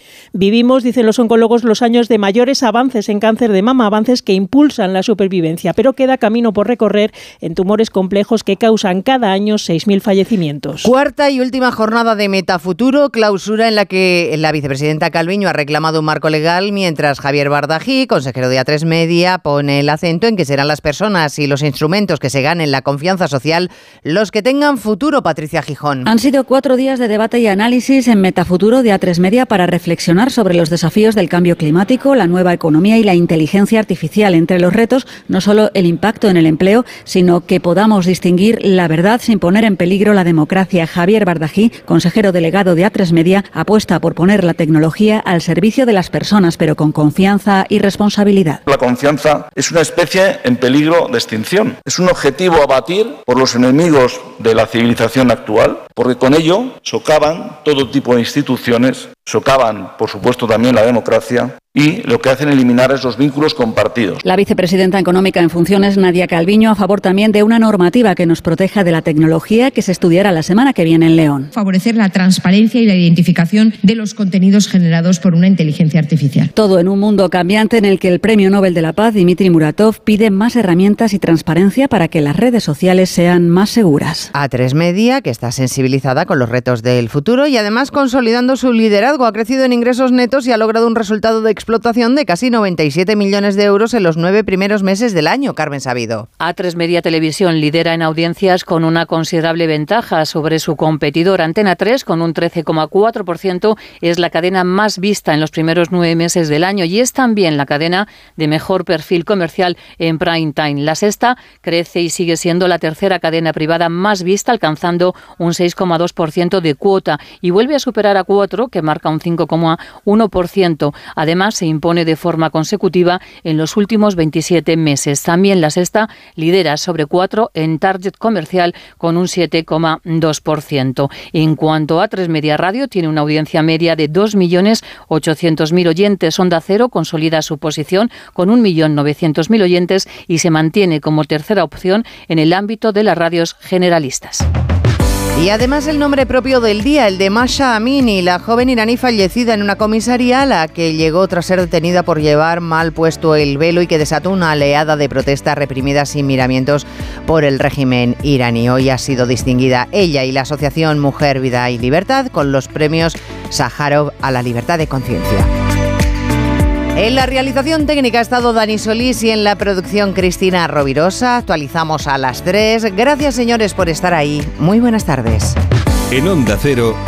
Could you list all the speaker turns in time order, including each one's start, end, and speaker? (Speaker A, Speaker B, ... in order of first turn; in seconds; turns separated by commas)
Speaker A: 0.3-10.9, Speaker B: 10.8-26.1, Speaker C: 26.1-48.6, Speaker D: 48.7-64.1, Speaker C: 64.2-71.5, Speaker E: 71.5-76.5, Speaker C: 76.5-84.3, Speaker B: 84.3-96.3, Speaker F: 96.4-144.4, Speaker B: 145.4-165.5, Speaker B: 166.9-175.6